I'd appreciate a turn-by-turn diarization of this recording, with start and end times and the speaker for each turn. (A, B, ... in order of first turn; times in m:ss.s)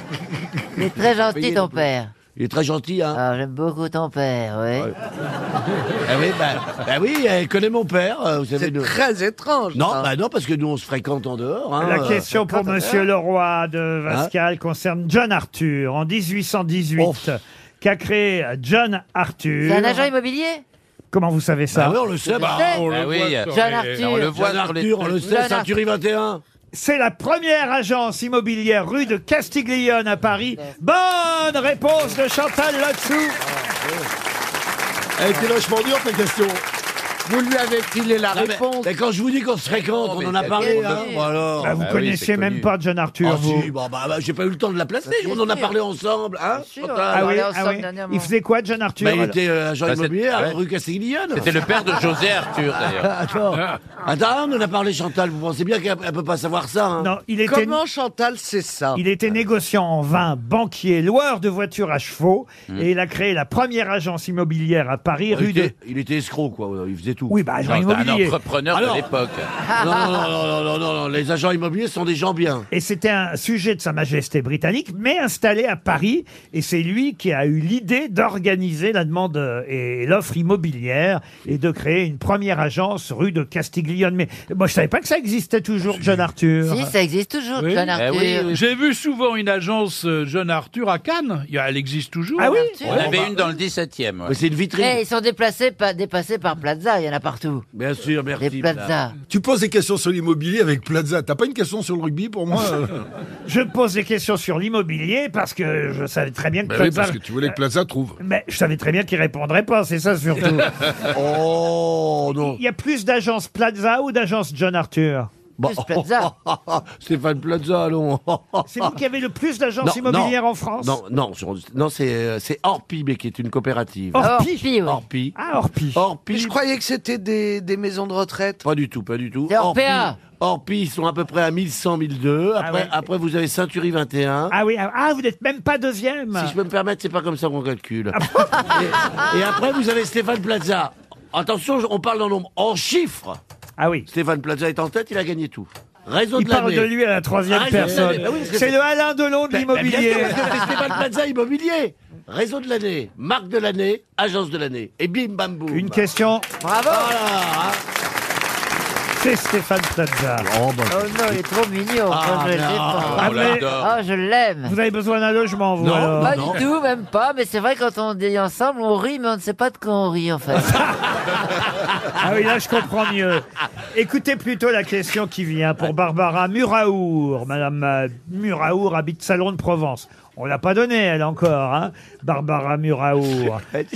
0:00.8-0:02.1 A
0:01.0-0:01.8 B
0:02.4-0:03.2 B
0:03.1-0:04.9 A
0:06.0-0:08.9 B
0:08.6-0:10.1 C
0:09.7-0:12.3 B
0:11.8-0:20.1 D
0:12.3-0:13.0 C
0:17.0-0:17.3 B
0:19.6-0:20.6 A
0:21.1-0:22.0 D
0:21.7-0:22.8 B
0:22.4-0:22.8 A
0:22.4-0:24.0 E
0:22.9-0:25.3 F
0:23.5-0:24.3 A
0:24.3-0:26.4 B
0:25.2-0:25.7 A
0:26.7-0:33.4 D
0:35.2-0:36.6 G
0:37.2-0:38.9 C
0:38.3-0:41.8 B
0:40.0-0:41.1 F
0:40.4-0:41.3 A
0:41.6-0:43.7 D
0:41.8-0:42.7 F
0:43.2-0:47.4 B
0:45.1-0:45.7 A
0:46.6-0:48.3 A
0:47.1-0:49.4 D
0:49.0-0:51.6 B
0:49.9-0:50.6 F
0:51.3-0:53.1 F
0:52.9-0:57.1 B
0:57.0-0:57.8 D
0:57.4-0:59.0 C
0:58.9-1:05.7 D
1:05.3-1:07.3 B
1:07.3-1:08.4 D
1:07.6-1:09.5 F
1:08.7-1:09.1 B
1:09.7-1:12.7 B
1:09.8-1:10.2 A
1:12.7-1:26.9 D
1:26.6-1:28.5 A
1:27.6-1:27.9 E
1:27.9-1:28.6 F
1:28.5-1:32.9 E
1:32.4-1:32.7 D
1:32.4-1:33.2 A
1:32.8-1:33.4 B
1:32.8-1:34.4 F
1:34.2-1:35.0 B
1:34.8-1:37.6 A
1:37.7-1:38.9 B
1:38.4-1:39.1 A
1:39.3-1:43.0 G
1:43.5-1:47.6 D
1:46.6-1:48.2 G
1:48.2-1:50.7 D
1:51.0-1:52.6 B
1:52.4-1:55.3 D
1:55.6-1:59.0 B
1:55.6-1:56.3 A
1:58.7-2:01.0 D
1:59.8-2:04.3 B
2:04.1-2:04.6 D
2:04.2-2:05.0 A
2:04.8-2:05.3 B
2:05.3-2:06.0 D
2:05.9-2:06.6 B
2:06.3-2:08.6 C
2:08.6-2:14.5 B
2:09.5-2:10.2 A
2:12.6-2:12.9 D
2:14.5-2:16.5 D
2:16.3-2:23.4 B
2:18.1-2:18.5 D
2:23.8-2:24.1 D
2:24.1-2:26.9 B
2:26.4-2:30.6 D
2:27.5-2:28.8 B
2:29.5-2:36.1 B
2:30.5-2:30.8 A
2:35.7-2:36.5 D
2:36.6-2:37.1 A
2:36.9-2:37.8 B
2:39.2-2:40.5 D
2:40.4-2:41.4 B
2:40.9-2:44.7 A
2:42.1-2:43.6 B
2:43.0-2:43.9 F
2:43.2-2:43.7 D
2:44.6-2:46.5 D
2:45.8-2:46.6 B
2:46.2-2:50.8 A
2:50.7-2:51.0 D
2:52.2-3:03.6 D